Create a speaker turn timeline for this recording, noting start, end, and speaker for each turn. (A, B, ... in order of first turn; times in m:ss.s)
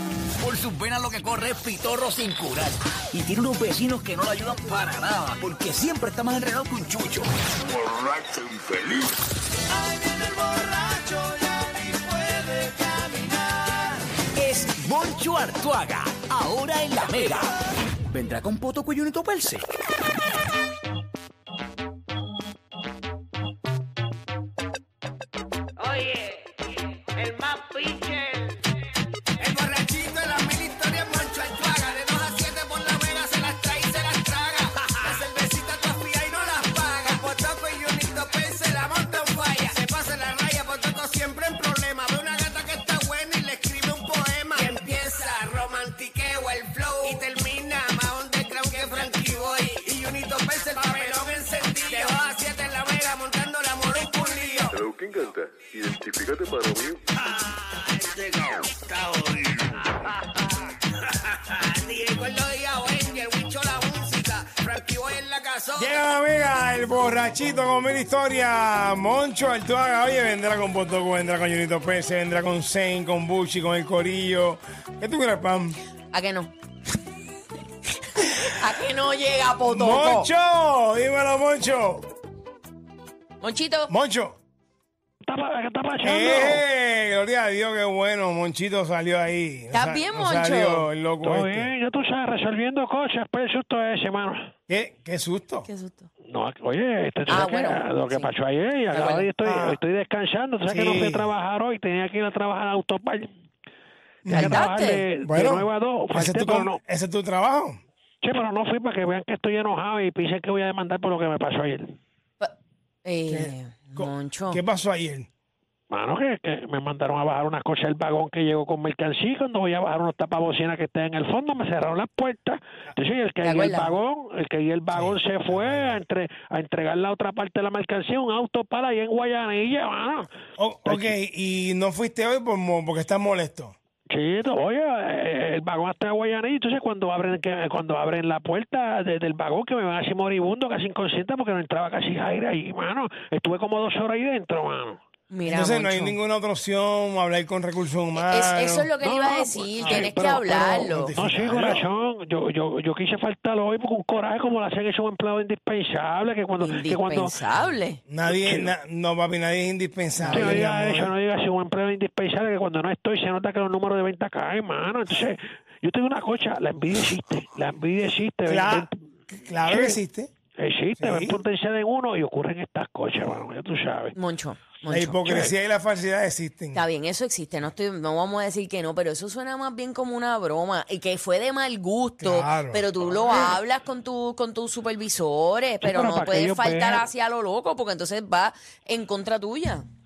0:00.4-0:07.3 A
0:08.0-0:09.1 A
0:09.8-0:17.5 A
0:18.1-0:19.6 A
0:25.8-0:26.6 B
0:27.1-0:28.6 B
0:29.4-0:54.8 B
0:54.7-0:57.0 C
0:57.3-1:00.3 B
1:01.0-1:05.9 B
1:05.8-1:15.8 D
1:16.1-1:16.5 E
1:18.2-1:20.3 E
1:19.7-1:22.0 D
1:23.4-1:23.9 E
1:23.9-1:24.4 D
1:25.2-1:26.6 F
1:26.0-1:31.7 D
1:29.7-1:30.9 E
1:31.2-1:34.5 F
1:34.7-1:35.7 D
1:35.6-1:36.1 E
1:36.3-1:43.3 F
1:37.3-1:38.3 E
1:38.9-1:39.3 E
1:39.4-1:39.8 D
1:40.7-1:41.3 D
1:44.2-1:44.6 D
1:44.3-1:46.8 F
1:44.3-1:45.0 E
1:45.2-1:47.8 D
1:48.2-1:52.0 F
1:52.4-1:54.6 E
1:53.3-1:55.3 D
1:55.9-2:10.3 F
2:03.4-2:04.0 E
2:04.9-2:06.0 D
2:10.6-2:13.8 D
2:10.8-2:11.2 F
2:14.1-2:25.0 F
2:25.3-2:26.2 E
2:25.4-2:28.9 D
2:28.2-2:31.2 E
2:29.0-2:37.4 F
2:29.8-2:30.1 D
2:30.7-2:31.9 D
2:36.6-2:38.0 E
2:38.1-2:41.2 D
2:38.2-2:38.7 F
2:40.2-2:40.6 E
2:40.3-2:48.9 F
2:48.5-2:50.3 D
2:49.7-2:50.0 F
2:50.6-2:54.2 F
2:51.0-2:51.4 D
2:54.2-2:55.2 E
2:54.9-2:56.8 D
2:55.3-2:55.5 F
2:56.7-3:09.9 E
3:02.2-3:02.9 D
3:05.8-3:07.1 F